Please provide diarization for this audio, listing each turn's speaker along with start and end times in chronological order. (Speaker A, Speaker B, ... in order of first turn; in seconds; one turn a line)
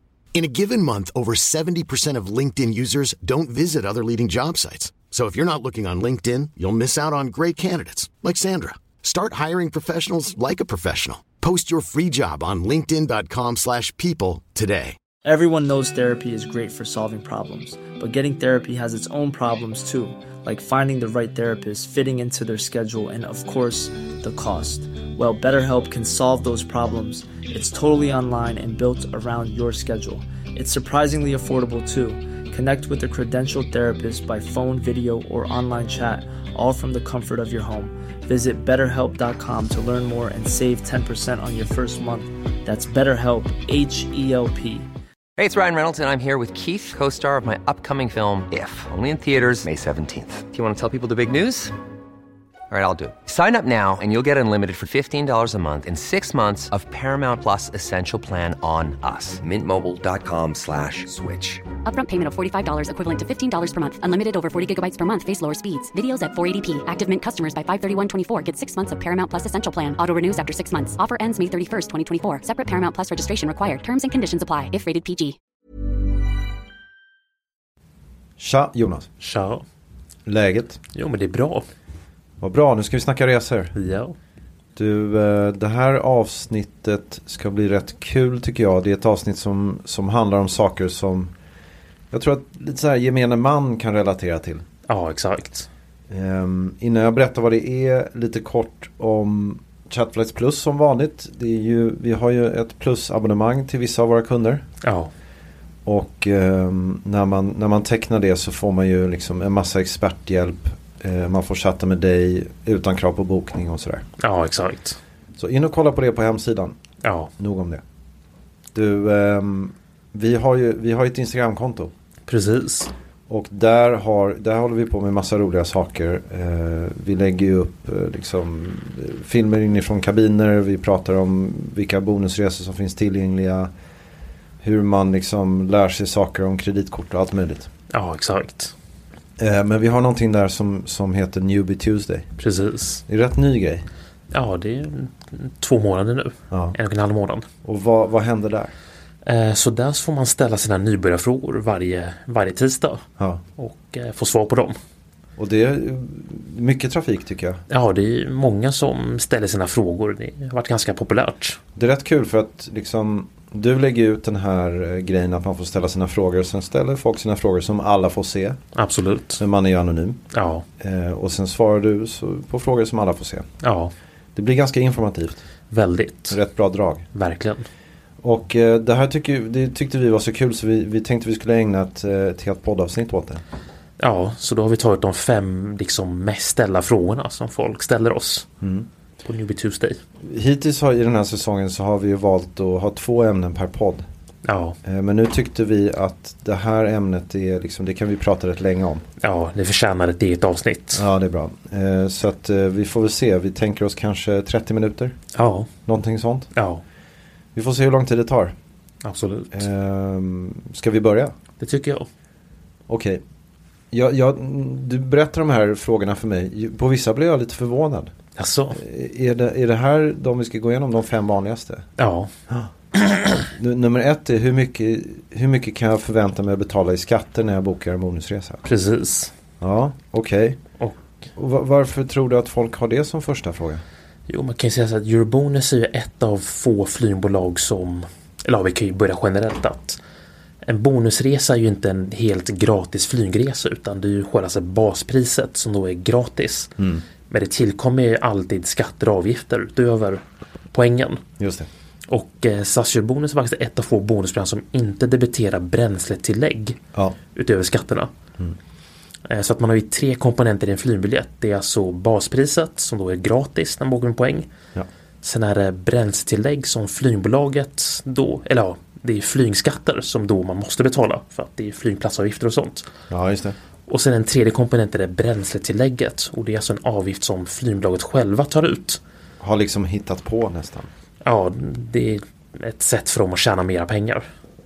Speaker A: 0.3-15.0
Speaker B: 15.2-44.9
Speaker C: 45.4-51.7
Speaker C: 52.7-61.6
Speaker D: 61.9-75.4
Speaker E: 78.4-79.1
Speaker F: 79.2-79.6
Speaker E: 80.3-80.8
Speaker F: 80.9-81.7
Speaker E: 82.4-83.8
Speaker F: 83.8-84.2
Speaker E: 84.8-91.3
Speaker E: 92.1-94.7
Speaker F: 94.9-95.7
Speaker E: 96.1-104.7
Speaker F: 104.8-105.1
Speaker E: 105.8-114.0
Speaker F: 114.2-115.0
Speaker E: 115.4-116.8
Speaker F: 117.0-117.3
Speaker E: 117.4-117.8
Speaker E: 118.7-121.9
Speaker F: 122.3-122.9
Speaker E: 123.3-133.7
Speaker E: 134.6-137.7
Speaker F: 137.9-138.7
Speaker E: 139.4-142.3
Speaker F: 142.4-143.0
Speaker E: 143.1-143.9
Speaker F: 144.3-147.5
Speaker E: 146.5-146.8
Speaker E: 147.6-148.7
Speaker F: 149.2-153.0
Speaker E: 153.2-153.4
Speaker F: 153.6-154.8
Speaker E: 155.4-157.6
Speaker F: 157.7-161.6
Speaker E: 161.8-168.6
Speaker F: 168.8-169.4
Speaker E: 169.4-170.2
Speaker F: 170.3-170.7
Speaker E: 170.8-173.5
Speaker F: 173.6-173.9
Speaker E: 174.3-175.4
Speaker F: 175.7-176.4
Speaker E: 176.3-177.1
Speaker F: 177.1-177.7
Speaker E: 178.2-183.4
Speaker F: 184.0-188.5
Speaker E: 188.6-188.9
Speaker F: 189.2-190.0
Speaker E: 190.2-194.1
Speaker F: 194.4-194.8
Speaker E: 194.8-199.1
Speaker F: 199.2-201.0
Speaker E: 200.9-205.2
Speaker F: 205.3-205.7
Speaker E: 205.9-206.5
Speaker F: 206.5-206.8
Speaker E: 207.5-208.6
Speaker F: 209.1-209.6
Speaker E: 209.5-211.3
Speaker F: 211.6-212.1
Speaker E: 212.9-213.2
Speaker E: 213.9-218.1
Speaker F: 218.4-218.8
Speaker E: 218.7-221.9
Speaker F: 222.0-222.3
Speaker F: 222.9-223.4
Speaker E: 223.5-228.7
Speaker F: 228.7-229.3
Speaker E: 229.6-230.6
Speaker E: 231.4-233.8
Speaker F: 234.3-240.0
Speaker F: 240.6-246.7
Speaker E: 246.8-247.0
Speaker F: 247.3-250.2
Speaker F: 250.7-251.2
Speaker E: 251.4-251.7
Speaker F: 252.1-256.8
Speaker F: 257.3-258.1
Speaker F: 259.3-264.5
Speaker F: 265.2-272.9
Speaker E: 273.1-273.6
Speaker F: 273.9-279.0
Speaker E: 279.4-280.9
Speaker F: 281.2-284.3